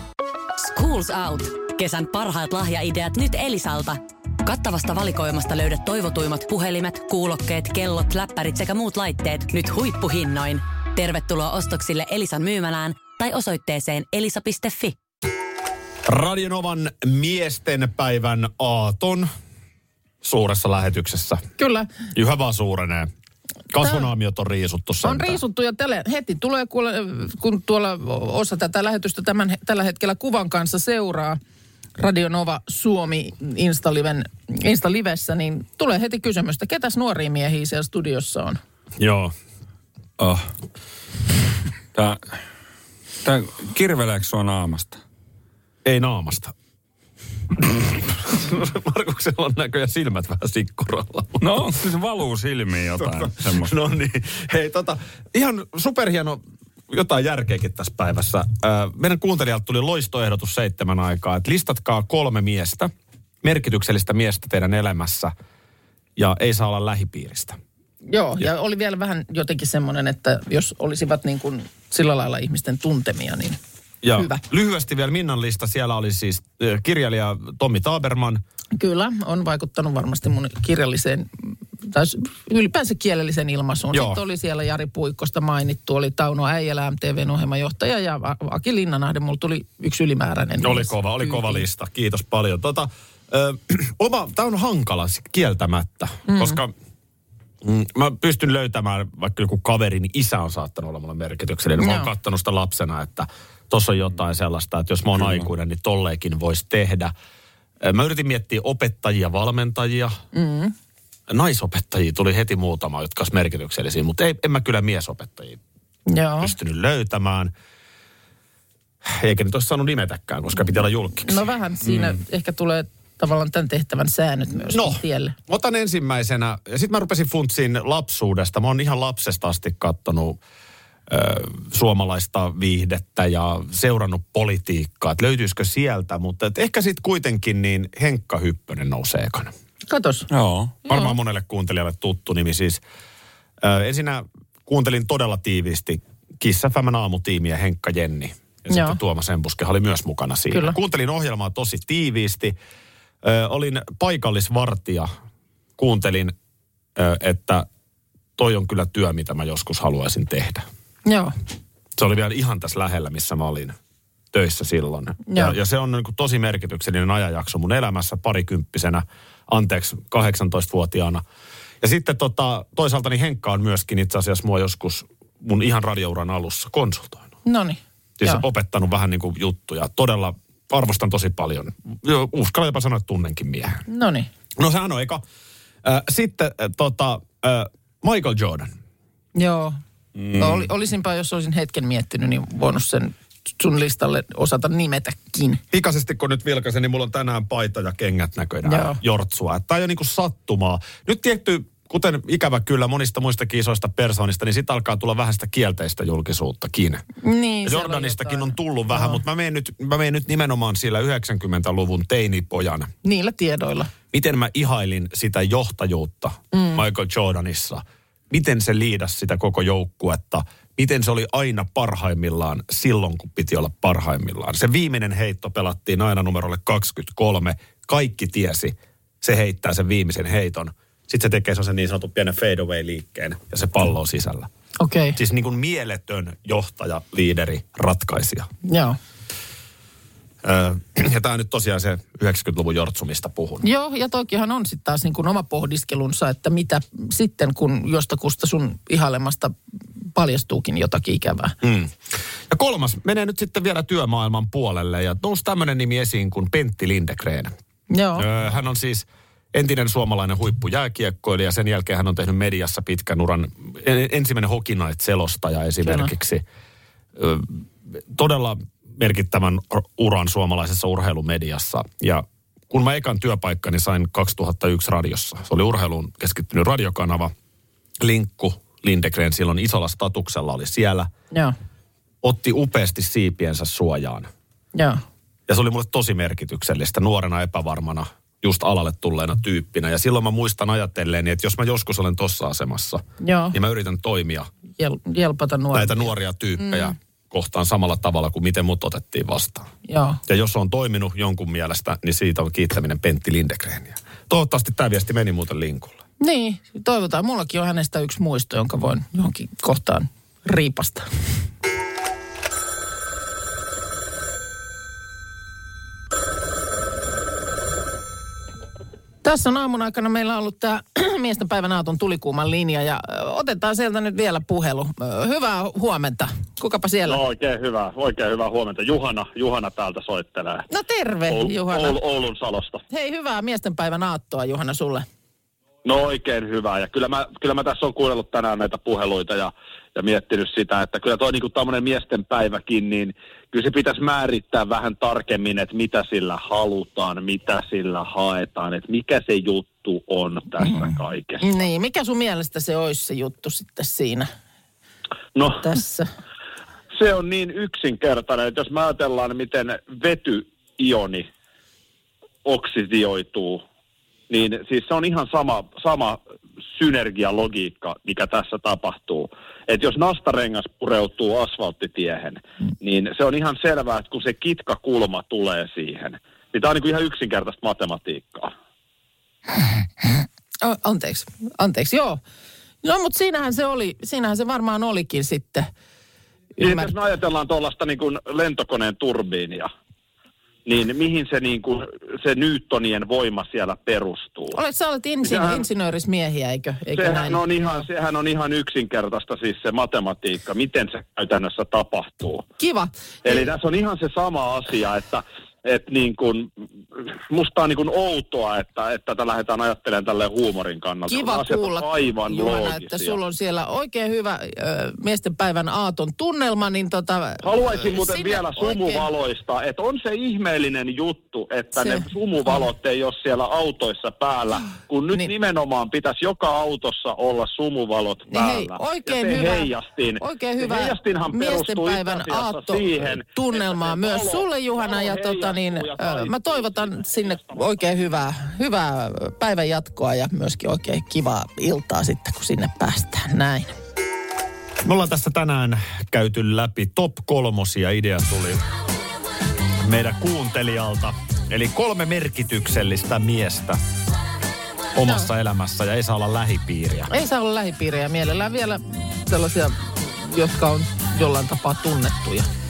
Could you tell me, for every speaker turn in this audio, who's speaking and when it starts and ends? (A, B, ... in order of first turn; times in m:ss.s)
0:00.6-0:15.0 A
0:16.1-0:19.3 B
0:20.2-0:21.4 B
0:21.6-0:21.9 C
0:22.1-0:23.1 B
0:23.7-0:25.4 B
0:23.8-0:24.1 C
0:25.0-0:31.4 C
0:32.0-0:38.6 C
0:39.0-0:39.3 B
0:40.2-0:40.5 D
0:41.9-0:42.2 D
0:43.2-0:45.0 D
0:45.8-0:46.5 B
0:47.7-0:51.6 B
0:51.4-0:53.7 D
0:53.0-1:02.9 B
1:03.4-1:05.3 B
1:06.2-1:07.6 B
1:08.1-1:13.6 C
1:14.0-1:18.4 B
1:14.2-1:14.4 C
1:18.8-1:31.6 C
1:23.9-1:24.2 B
1:30.6-1:36.7 B
1:36.3-1:36.6 C
1:37.6-1:47.1 B
1:41.8-1:42.1 C
1:47.8-1:50.2 B
1:50.3-1:50.7 C
1:51.3-1:55.6 B
1:56.1-1:56.5 C
1:56.4-1:57.5 B
1:59.0-2:02.2 B
2:00.6-2:05.4 C
2:04.7-2:10.4 B
2:11.1-2:19.5 B
2:19.9-2:20.3 C
2:20.3-2:20.8 D
2:20.9-2:22.8 B
2:23.6-2:32.6 B
2:28.7-2:29.0 C
2:30.5-2:30.8 C
2:33.2-2:35.1 B
2:35.8-2:36.4 B
2:37.0-2:37.7 B
2:38.4-2:40.6 B
2:41.1-2:41.3 C
2:42.0-2:43.8 B
2:44.3-2:51.2 B
2:45.3-2:45.6 C
2:51.8-2:57.3 B
2:57.4-2:58.4 C
2:58.2-3:03.8 B
3:03.9-3:04.3 C
3:04.6-3:05.2 B
3:05.8-3:08.7 B
3:09.4-3:09.8 C
3:10.2-3:10.7 D
3:10.4-3:15.6 C
3:15.7-3:27.0 B
3:18.6-3:19.0 C
3:27.2-3:29.2 C
3:27.6-3:32.9 B
3:33.0-3:33.9 C
3:34.1-3:54.5 B
3:36.5-3:36.8 C
3:54.8-3:55.2 C
3:55.2-3:58.5 B
3:58.6-3:59.0 C
4:00.4-4:03.6 B
4:03.6-4:09.6 C
4:10.1-4:11.6 C
4:11.6-4:17.5 B
4:17.9-4:18.3 C
4:18.2-4:26.4 B
4:25.8-4:26.1 C
4:27.2-4:37.3 B
4:38.0-4:41.1 B
4:42.2-4:44.3 B
4:44.8-4:45.0 C
4:45.5-4:54.5 B
4:53.2-4:53.6 C
4:54.8-4:56.9 C
4:55.7-4:59.7 B
4:59.9-5:00.2 C
5:00.3-5:06.0 B
5:06.2-5:11.1 C
5:19.2-5:27.2 C
5:27.1-5:30.7 E
5:30.7-5:32.0 C
5:31.3-5:32.8 E
5:32.9-5:35.0 C
5:35.8-5:51.5 E
5:50.6-5:54.3 C
5:55.4-5:55.6 E
5:55.6-5:56.1 C
5:56.9-6:01.3 E
6:02.4-6:03.6 E
6:04.3-6:06.2 E
6:06.8-6:18.5 E
6:20.0-6:22.2 C
6:22.8-6:25.7 C
6:26.6-6:26.9 C
6:26.6-6:29.7 E
6:30.7-6:34.6 E
6:34.5-6:37.8 C
6:35.2-6:35.6 E
6:37.0-6:42.4 E
6:42.6-6:43.5 C
6:43.2-6:46.5 E
6:47.3-6:53.2 E
6:51.1-6:59.1 C
6:57.4-7:18.1 E
7:01.8-7:02.6 C
7:08.3-7:23.7 C
7:24.8-7:28.6 B
7:29.8-7:33.8 B
7:35.0-7:37.1 B
7:37.1-7:42.5 C